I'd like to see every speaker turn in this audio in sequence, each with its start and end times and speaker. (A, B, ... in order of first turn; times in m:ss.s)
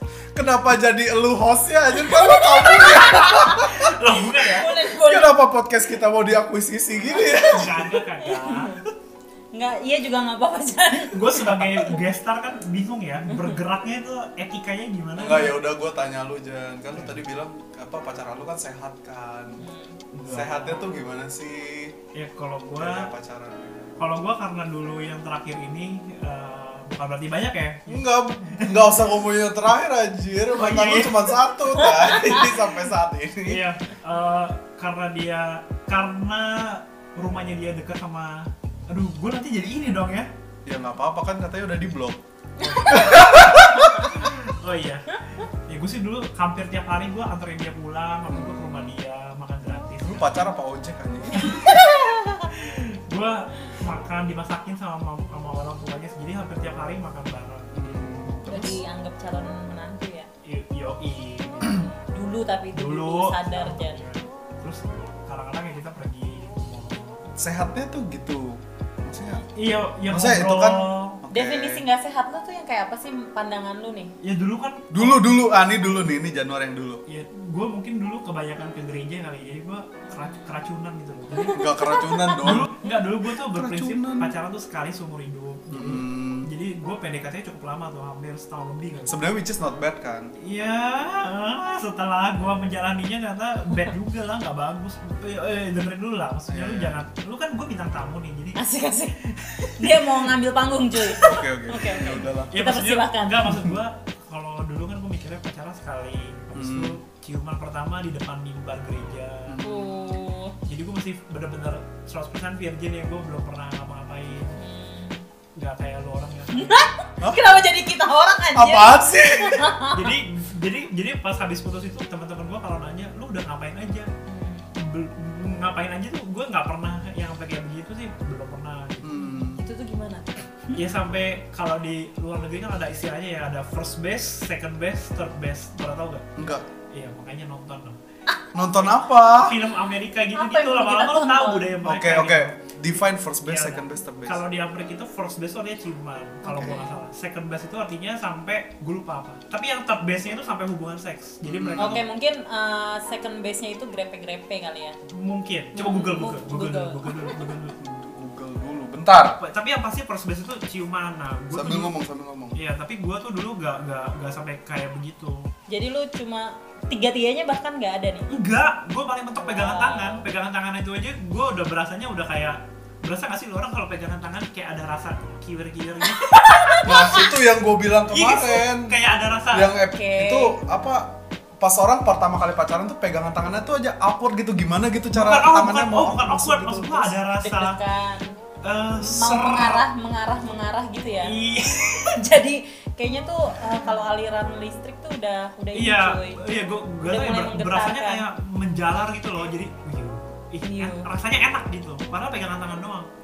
0:00.3-0:03.9 A
0:02.0-0:03.6 B
0:02.7-0:04.8 C
0:04.5-0:05.4 B
0:05.0-0:08.0 A
0:07.2-0:07.5 B
0:07.3-0:08.8 C
0:08.2-0:08.8 B
0:09.5-0:12.0 B
0:11.1-0:15.6 C
0:13.3-0:13.6 B
0:15.2-0:19.6 A
0:16.9-0:17.2 C
0:19.6-0:20.0 B
0:20.1-0:20.8 C
0:20.2-0:22.0 A
0:22.1-0:23.1 C
0:22.7-0:24.0 A
0:24.0-0:28.8 C
0:27.9-0:33.6 A
0:30.5-0:31.4 C
0:31.8-0:32.5 B
0:33.4-0:40.3 C
0:40.6-0:42.2 A
0:42.6-0:44.1 B
0:42.7-0:43.1 C
0:42.9-0:44.2 A
0:44.0-0:50.4 C
0:48.3-0:48.9 A
0:50.0-0:51.6 A
0:51.3-0:52.5 B
0:52.4-0:57.8 C
0:57.7-0:58.8 A
0:58.4-1:00.3 B
1:00.4-1:01.8 C
1:02.1-1:04.1 B
1:02.7-1:07.2 C
1:07.4-1:09.5 A
1:09.6-1:11.2 C
1:10.1-1:11.8 A
1:11.3-1:14.1 B
1:14.2-1:15.3 C
1:14.9-1:17.0 A
1:17.1-1:21.7 C
1:20.2-1:20.5 B
1:21.3-1:22.6 B
1:21.5-1:22.7 A
1:22.4-1:29.2 C
1:23.4-1:24.3 A
1:25.7-1:26.5 A
1:29.1-1:30.3 A
1:30.4-1:38.6 C
1:36.5-1:37.0 A
1:38.6-1:43.5 B
1:39.3-1:40.0 C
1:41.1-1:42.5 A
1:42.5-1:49.6 C
1:46.5-1:46.9 A
1:49.5-1:50.1 A
1:49.6-1:50.6 B
1:50.6-1:54.6 C
1:54.6-1:55.2 B
1:55.6-1:56.8 C
1:56.5-2:00.1 B
1:57.2-1:57.4 A
1:58.5-1:59.8 A
1:59.9-2:04.1 C
2:04.2-2:04.7 B
2:04.8-2:09.2 C
2:09.0-2:09.6 A
2:09.2-2:10.8 B
2:10.7-2:16.3 C
2:16.4-2:16.7 A
2:16.9-2:18.0 C
2:18.5-2:19.6 A
2:19.4-2:22.5 C
2:20.3-2:21.7 B
2:21.8-2:24.4 A
2:23.4-2:32.0 C
2:26.4-2:27.0 B
2:26.5-2:26.8 A
2:31.4-2:32.0 A
2:31.8-2:35.0 B
2:35.1-2:37.8 C
2:35.8-2:37.4 B
2:37.8-2:39.4 A
2:39.4-2:41.9 C
2:41.5-2:42.6 A
2:42.5-2:45.5 C
2:45.7-2:48.3 B
2:48.3-2:57.2 C
2:49.4-2:50.2 B
2:56.2-2:57.2 B
2:56.8-2:58.9 A
2:58.1-2:59.7 C
2:59.5-3:07.1 A
2:59.9-3:00.6 B
3:05.1-3:07.8 C
3:07.4-3:08.3 B
3:08.6-3:09.8 C
3:09.0-3:18.2 B
3:11.2-3:12.2 C
3:15.7-3:23.1 C
3:20.6-3:21.1 B